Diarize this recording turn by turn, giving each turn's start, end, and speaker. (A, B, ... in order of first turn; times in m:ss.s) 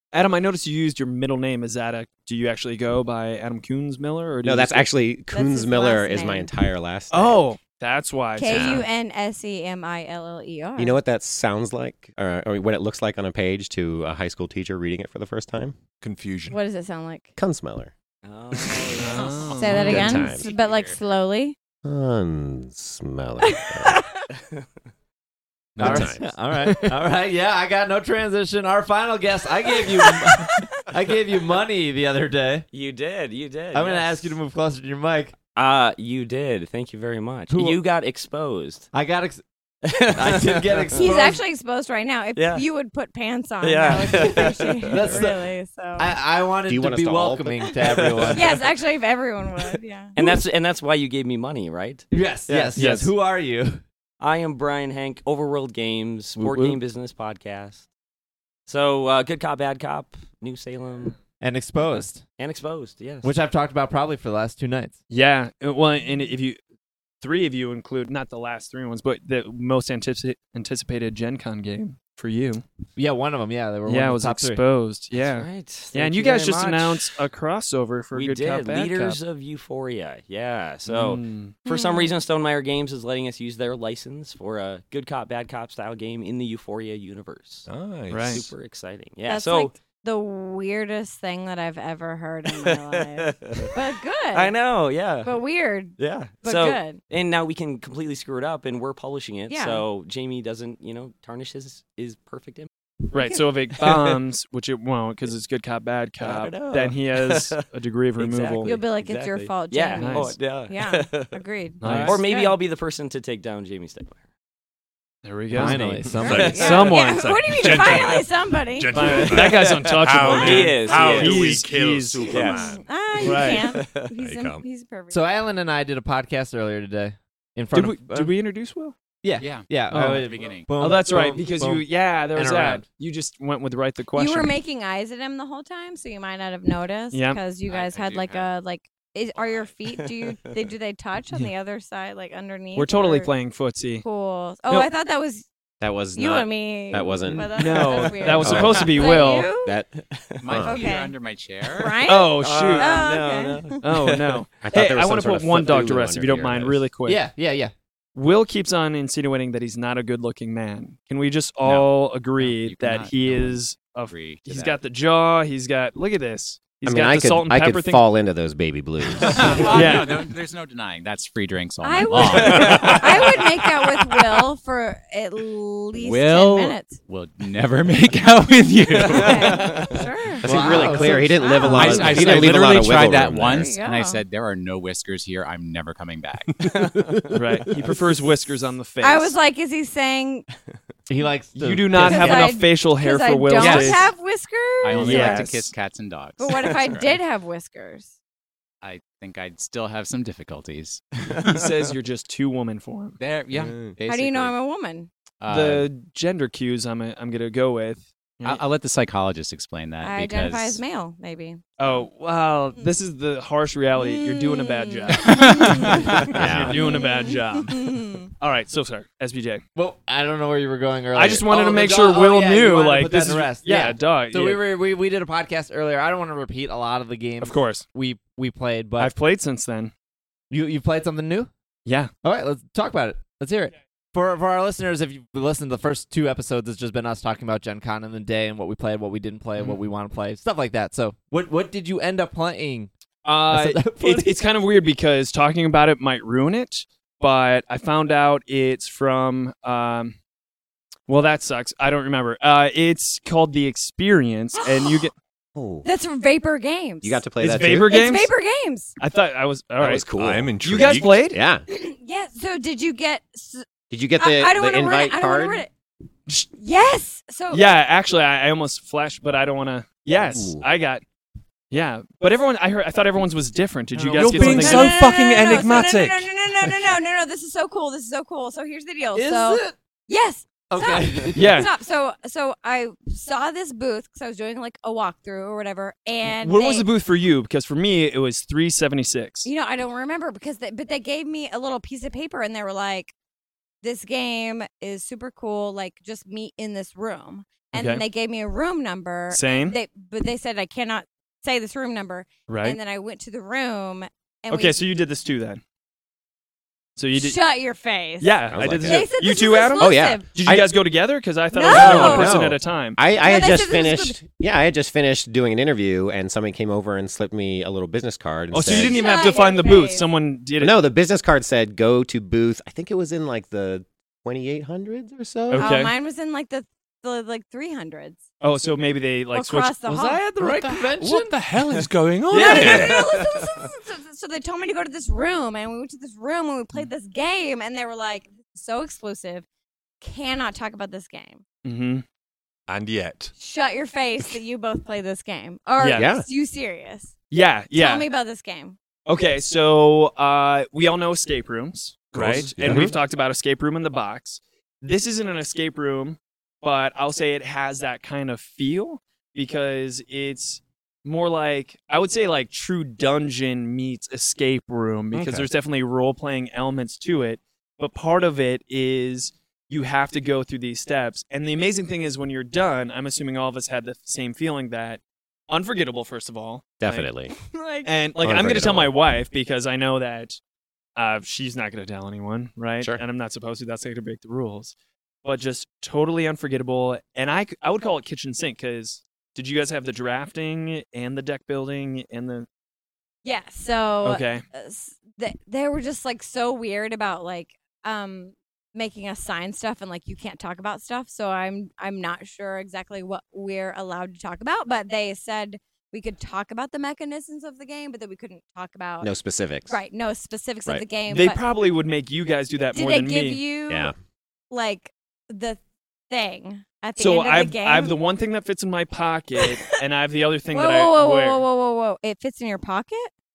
0:00.1-0:04.9 A
0:04.4-0:07.4 B
0:05.3-0:06.5 C
0:07.1-0:08.9 A
0:08.4-0:11.0 C
0:10.8-0:15.8 B
0:16.0-0:16.6 D
0:16.5-0:17.3 C
0:17.4-0:17.9 B
0:18.2-0:19.8 E
0:19.0-0:20.1 A
0:19.2-0:21.0 F
0:19.5-0:21.6 C
0:19.7-0:20.4 B
0:21.8-0:24.1 B
0:23.5-0:24.2 C
0:24.4-0:24.7 E
0:25.8-0:26.3 B
0:25.8-0:26.2 D
0:25.8-0:32.6 G
0:26.6-0:26.9 C
0:32.7-0:34.4 E
0:33.7-0:35.4 G
0:35.6-0:38.9 E
0:37.5-0:37.8 G
0:38.9-0:39.4 G
0:39.9-0:41.2 E
0:39.9-0:41.4 G
0:41.0-0:46.1 C
0:42.4-0:42.6 E
0:43.6-0:45.3 E
0:44.0-0:48.6 G
0:46.7-0:47.7 B
0:47.8-0:48.4 E
0:48.3-0:50.2 C
0:50.2-0:53.0 E
0:52.1-0:53.8 G
0:52.8-0:53.1 A
0:54.2-0:57.9 E
0:56.4-0:56.8 A
0:58.7-1:01.2 E
1:01.4-1:02.2 G
1:02.4-1:03.3 E
1:03.2-1:05.0 G
1:05.1-1:06.6 A
1:07.2-1:12.6 A
1:13.0-1:14.6 G
1:13.9-1:19.2 A
1:15.1-1:17.2 E
1:18.1-1:27.7 E
1:20.9-1:21.6 A
1:21.7-1:22.2 C
1:27.7-1:28.5 D
1:28.1-1:28.4 A
1:28.3-1:29.8 E
1:29.3-1:34.5 C
1:32.5-1:35.4 E
1:35.2-1:37.0 C
1:36.0-1:42.7 E
1:39.5-1:39.8 C
1:43.1-1:48.7 A
1:43.8-1:44.2 E
1:46.2-1:47.7 E
1:48.2-1:51.4 E
1:48.6-1:52.6 C
1:50.0-1:50.4 A
1:51.8-1:52.2 A
1:51.8-1:52.1 G
1:52.0-1:54.2 E
1:55.2-1:58.1 A
1:55.5-1:56.7 G
1:55.6-2:02.8 D
1:56.2-1:59.4 C
1:58.9-2:02.5 A
1:59.4-2:01.5 E
2:02.3-2:04.1 E
2:02.7-2:05.3 C
2:03.2-2:03.7 A
2:04.2-2:04.6 D
2:05.1-2:08.3 G
2:07.7-2:09.0 A
2:09.2-2:12.8 G
2:09.4-2:10.8 F
2:09.9-2:14.5 A
2:14.2-2:23.3 C
2:17.1-2:17.4 A
2:17.7-2:18.5 F
2:19.9-2:20.7 E
2:22.8-2:24.0 A
2:24.0-2:25.5 C
2:25.8-2:29.9 B
2:26.2-2:29.7 C
2:27.3-2:29.5 A
2:29.9-2:30.5 E
2:30.4-2:32.1 F
2:30.5-2:30.9 B
2:30.6-2:31.1 C
2:31.7-2:33.8 C
2:32.1-2:33.1 A
2:32.4-2:34.4 E
2:33.8-2:37.2 A
2:34.6-2:36.9 B
2:37.1-2:37.7 G
2:38.2-2:48.0 A
2:41.6-2:44.8 F
2:46.8-2:49.8 B
2:49.2-2:53.4 F
2:49.3-2:49.8 E
2:49.6-2:50.2 A
2:51.8-2:57.0 C
2:52.2-2:53.5 E
2:56.0-2:59.8 F
2:59.0-2:59.9 E
2:59.1-3:02.5 C
3:00.4-3:03.7 B
3:00.4-3:01.4 G
3:01.6-3:06.8 F
3:03.5-3:04.2 C
3:06.6-3:08.0 E
3:07.3-3:09.4 A
3:09.0-3:10.5 C
3:11.1-3:12.6 G
3:11.6-3:14.1 A
3:12.0-3:15.5 C
3:13.6-3:14.1 F
3:14.8-3:17.2 F
3:15.0-3:15.7 A
3:15.1-3:15.6 E
3:16.4-3:18.1 C
3:16.6-3:16.9 E
3:18.8-3:21.6 F
3:21.5-3:23.2 A
3:23.2-3:23.8 F
3:23.6-3:24.5 B
3:24.1-3:25.1 C
3:25.4-3:25.9 F
3:25.5-3:28.6 A
3:28.4-3:30.8 F
3:30.0-3:31.6 C
3:31.8-3:39.6 A
3:34.0-3:38.3 C
3:35.2-3:36.2 F
3:36.3-3:36.8 B
3:39.8-3:49.1 G
3:41.1-3:44.6 A
3:47.4-3:47.8 A
3:49.0-3:49.9 A
3:50.5-3:51.5 G
3:51.9-3:52.1 A
3:52.2-4:02.9 G
4:03.2-4:10.2 A
4:03.5-4:04.4 G
4:11.1-4:15.1 A
4:14.6-4:15.1 C
4:15.6-4:15.9 B
4:15.8-4:17.2 C
4:17.0-4:17.9 B
4:17.4-4:18.3 A
4:17.9-4:18.9 C
4:19.0-4:20.1 A
4:19.8-4:20.6 B
4:20.2-4:21.3 D
4:20.6-4:21.4 A
4:21.3-4:21.6 B
4:21.7-4:23.6 C
4:23.9-4:25.6 B
4:24.2-4:25.7 C
4:26.5-4:27.7 C
4:27.5-4:31.0 A
4:30.1-4:30.6 B
4:31.7-4:35.0 A
4:34.0-4:34.6 G
4:34.1-4:36.9 D
4:34.4-4:46.9 C
4:39.2-4:39.8 G
4:40.7-4:41.6 G
4:41.4-4:41.7 A
4:46.2-4:49.5 A
4:49.4-4:53.1 C
4:53.8-5:04.8 C
4:57.7-4:58.0 A
4:59.3-4:59.8 A
5:02.5-5:02.8 A
5:04.5-5:05.6 A
5:07.0-5:07.4 A
5:07.2-5:10.3 C
5:08.2-5:13.0 A
5:08.5-5:09.0 B
5:09.8-5:10.7 B
5:11.5-5:12.4 C
5:11.6-5:19.0 B
5:13.2-5:14.2 C
5:18.5-5:20.8 A
5:18.7-5:20.1 C
5:20.6-5:25.7 B
5:25.5-5:25.9 A
5:25.6-5:28.2 C
5:28.4-5:29.7 A
5:29.3-5:30.2 C
5:29.8-5:31.3 G
5:30.4-5:33.1 D
5:32.3-5:39.4 C
5:32.3-5:33.7 E
5:40.0-5:41.4 C
5:41.6-5:42.0 A
5:42.7-5:43.3 D
5:43.4-5:47.1 C
5:45.8-5:46.0 A
5:46.0-5:46.3 B
5:47.3-5:48.1 A
5:47.7-5:48.8 C
5:49.1-6:17.1 A
5:52.1-5:52.9 D
5:52.6-5:52.9 B
6:05.2-6:05.4 D
6:16.8-6:17.3 B
6:17.3-6:17.9 C
6:17.8-6:20.4 A
6:18.2-6:18.9 B
6:21.0-6:24.7 A
6:25.2-6:32.5 A
6:33.2-6:49.1 C
6:34.0-6:34.4 A
6:49.0-6:49.8 B
6:49.7-6:51.4 C
6:51.1-6:53.4 A
6:52.7-6:53.9 C
6:54.5-6:58.0 C
6:57.0-7:01.4 A
7:00.5-7:03.1 C